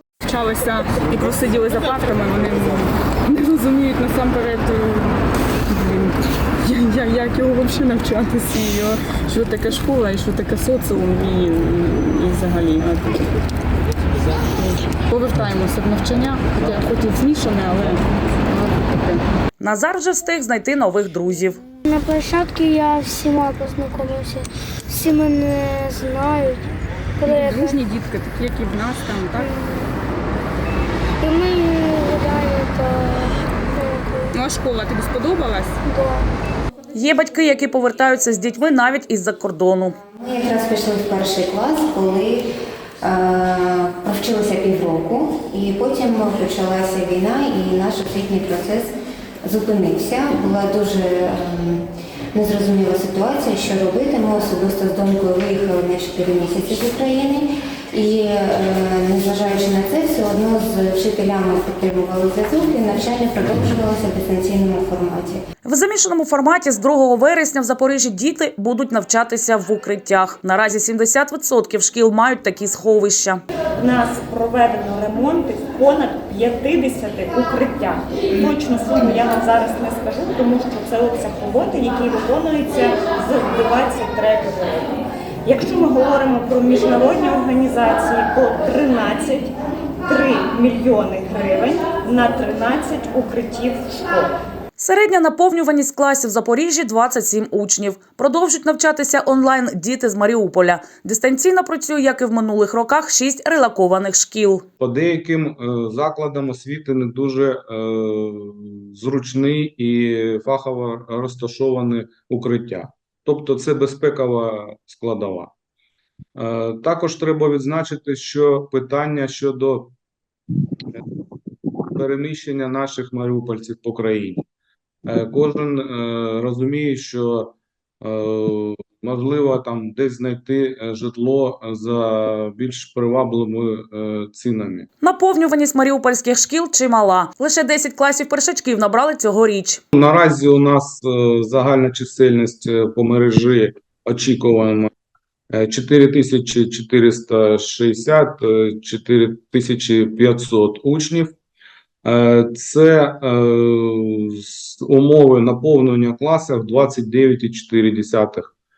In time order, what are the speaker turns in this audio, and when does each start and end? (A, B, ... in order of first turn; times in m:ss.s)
0:00.2-0:13.3 A
0:14.5-0:19.2 A
0:19.6-0:21.6 B
0:21.8-0:27.8 C
0:27.2-0:29.5 A
0:29.4-0:30.0 C
0:31.2-0:34.3 C
0:34.3-0:35.8 A
0:35.8-0:36.2 C
0:36.9-0:40.0 B
0:40.1-0:42.5 D
0:43.0-0:48.9 D
0:49.4-1:05.4 D
1:05.6-1:13.4 B
1:13.8-1:34.3 E
1:34.8-1:44.6 B
1:44.8-1:55.5 F
1:56.4-1:59.9 F
2:01.9-2:04.4 F
2:05.0-2:14.9 F
2:15.0-2:19.8 B
2:19.9-2:24.9 F
2:25.5-2:31.3 F
2:32.0-2:38.5 F